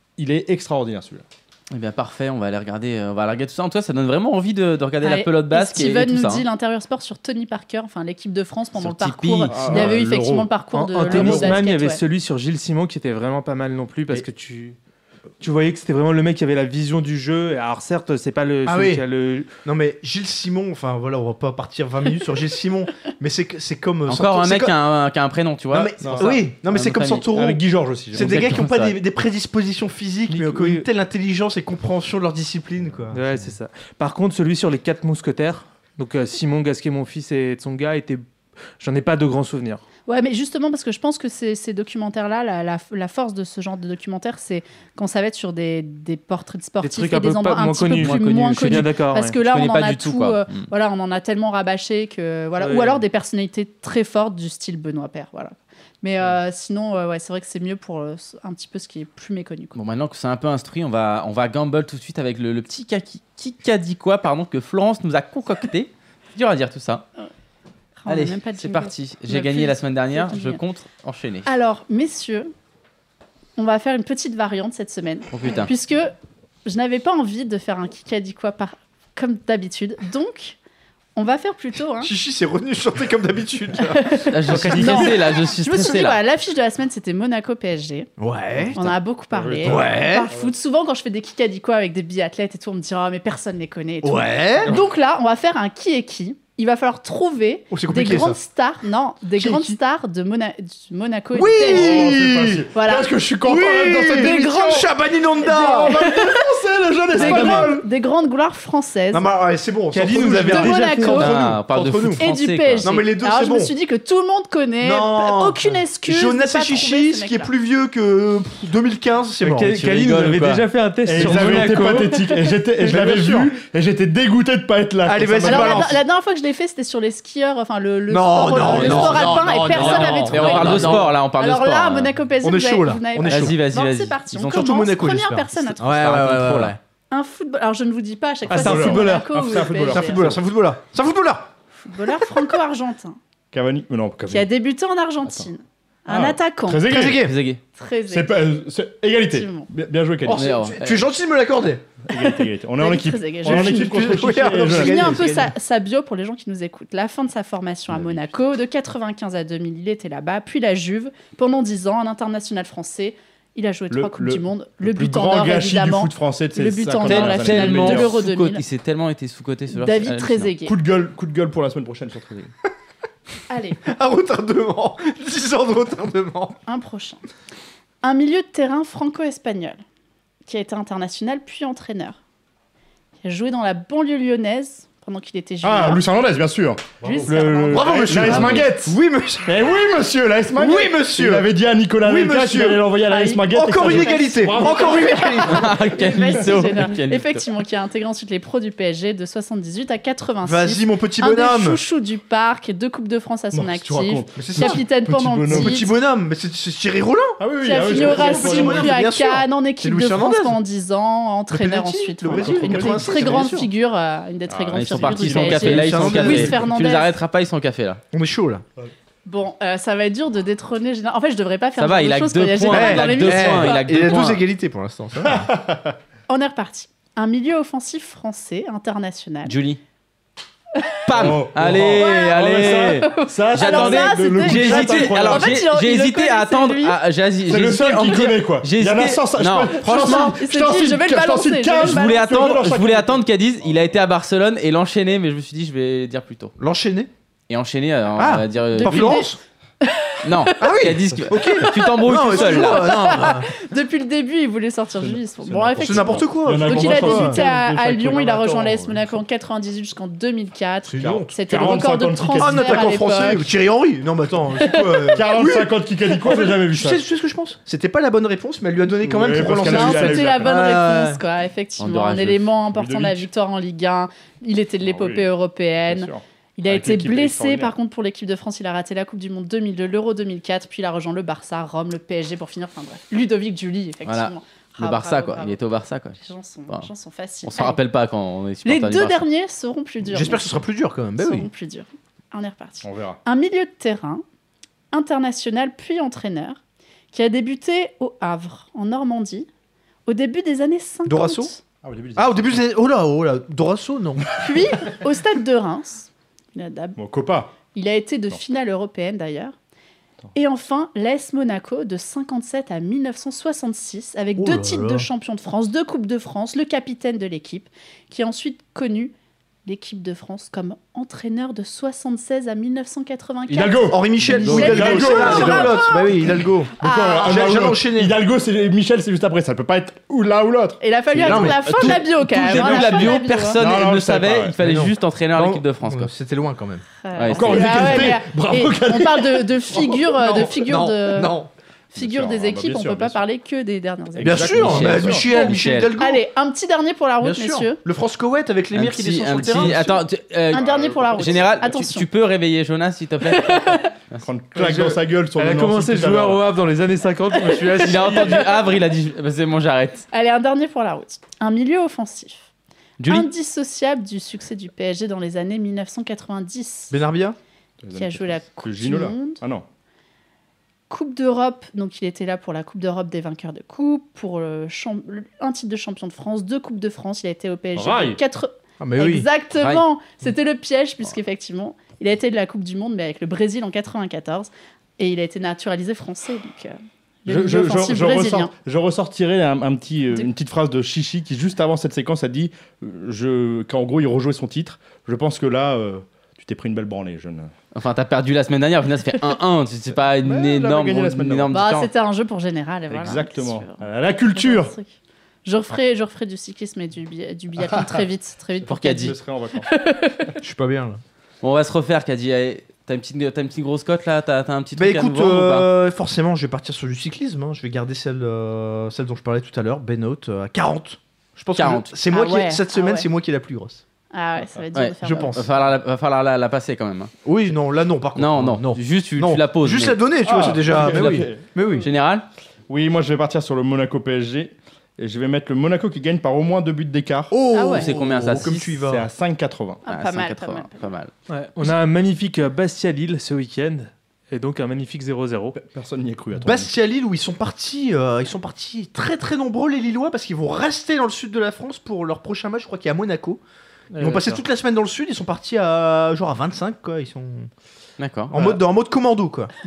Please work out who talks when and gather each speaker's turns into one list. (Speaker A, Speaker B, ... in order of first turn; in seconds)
Speaker A: 0.2-1.2, 9.5-10.4, 26.0-26.4, 27.3-28.6, 89.3-90.5, 101.6-104.9, 105.4-107.8, 119.4-125.9, 138.5-140.4, 143.5-144.5, 146.1-147.3, 148.1-150.6, 152.1-155.3, 157.9-158.3, 163.9-168.1, 170.6-172.5, 185.6-195.3, 203.5-205.8, 207.4-209.0, 212.2-213.6, 214.5-216.4, 225.2-225.9, 231.1-235.5, 237.5-243.2, 255.0-259.0, 261.0-263.4, 264.7-267.0, 269.0-270.6, 272.7-273.3, 274.8-275.2, 275.9-277.7, 292.8-293.2, 301.8-302.6, 307.0-307.5, 323.5-326.1, 326.8-331.9, 332.7-334.6, 337.3-340.1, 341.9-343.2, 344.1-345.3, 350.5-351.5, 354.2-356.4, 367.8-369.6, 377.7-378.2, 387.3-397.5, 400.2-401.6, 402.9-404.7, 408.6-409.7, 430.2-431.4, 432.7-437.3, 438.6-439.8, 445.5-446.7
Speaker B: 1.7-6.4, 8.8-9.8, 24.1-27.2, 28.1-28.9, 47.9-48.9, 49.4-50.7, 59.7-67.0, 68.1-71.5, 75.3-75.7, 84.3-86.2, 111.1-112.9, 128.7-132.1, 133.2-134.7, 135.8-136.8, 147.2-147.6, 150.3-151.1, 167.0-170.5, 188.2-188.6, 195.4-197.4, 214.7-218.0, 221.8-224.4, 229.4-229.8, 231.1-240.4, 241.8-246.5, 247.5-249.2, 250.2-253.0, 271.8-272.5, 284.1-286.9, 287.4-289.3, 324.4-325.6, 331.2-336.1, 337.1-338.1, 344.4-345.9, 348.7-354.2, 357.8-360.1, 363.0-363.3, 379.6-379.8, 397.7-401.9, 408.7-409.1, 411.4-415.7, 421.5-421.9, 424.7-427.1, 428.1-430.0, 431.8-432.2, 437.6-438.7, 439.9-441.1, 458.0-458.6
Speaker C: 5.0-12.0, 40.1-59.8, 68.0-70.6, 71.4-72.5, 73.6-76.1, 76.7-80.6, 81.2-82.1, 83.9-88.1, 88.7-102.0, 102.7-103.1, 104.1-104.9, 105.5-106.5, 107.2-109.2, 110.4-111.3, 112.2-117.5, 125.4-136.1, 137.1-140.3, 141.8-143.2, 144.3-146.9, 147.7-148.3, 149.2-149.7, 152.1-168.6, 169.7-170.7, 173.5-173.8, 176.7-177.2, 178.0-179.8, 180.4-182.2, 183.2-186.0, 187.0-188.0, 193.0-206.0, 207.6-217.2, 219.2-224.2, 226.3-229.5, 231.8-237.0, 239.8-242.2, 248.7-249.3, 249.8-250.8, 251.4-263.5, 264.6-265.2, 269.3-285.6, 286.1-287.8, 288.6-290.5, 291.2-294.2, 294.9-296.6, 297.1-299.5, 300.1-301.6, 304.4-307.0, 307.7-309.5, 310.3-319.1, 319.6-326.3, 326.8-327.7, 330.8-333.6, 337.0-341.3, 341.9-344.7, 346.0-347.8, 350.5-352.1, 353.2-353.9, 357.5-358.6, 360.1-362.4, 363.1-366.9, 367.9-369.4, 370.9-388.5, 401.5-404.9, 405.4-410.4, 422.1-423.1, 424.1-425.4, 437.5-437.9, 439.8-440.9
Speaker D: 10.7-14.8, 15.4-19.5, 30.3-30.9, 33.1-38.2, 38.8-39.8, 46.8-49.4, 52.6-53.0, 109.9-111.3, 119.4-122.2, 122.9-123.2, 129.8-131.1, 138.5-139.3, 354.5-358.5, 441.3-445.5, 453.9-454.4
Speaker E: 11.1-11.5, 18.6-19.0, 19.6-24.7, 25.7-27.6, 28.1-33.2, 82.0-85.1, 88.2-88.9, 89.6-90.3, 94.0-94.7, 97.7-98.4, 99.4-99.8, 101.3-102.7, 103.4-106.0, 107.2-107.8, 109.1-112.2, 112.8-113.7, 114.8-119.8, 123.0-123.5, 125.0-126.0, 128.1-130.1, 130.7-131.0, 132.4-133.7, 134.5-136.8, 139.8-141.5, 146.8-147.3, 150.3-151.9, 153.4-155.5, 173.8-176.6, 187.4-189.5, 190.6-191.4, 192.0-192.9, 193.5-195.8, 200.4-201.8, 204.3-204.8, 205.5-210.6, 211.5-213.7, 215.4-216.7, 218.1-218.6, 222.7-225.5, 246.6-247.1, 248.2-249.4, 250.6-253.5, 255.8-257.4, 260.8-261.4, 262.3-271.2, 290.0-291.5, 301.1-301.5, 302.1-304.8, 314.4-315.1, 323.8-326.7, 327.3-328.1, 331.1-333.0, 334.6-336.9, 339.9-341.5, 344.2-346.2, 347.2-350.0, 366.9-367.4, 378.8-379.3, 410.4-411.0, 414.8-423.8, 425.0-425.5, 427.2-431.9, 437.3-439.1, 446.4-453.4, 454.0-457.5, 458.3-459.5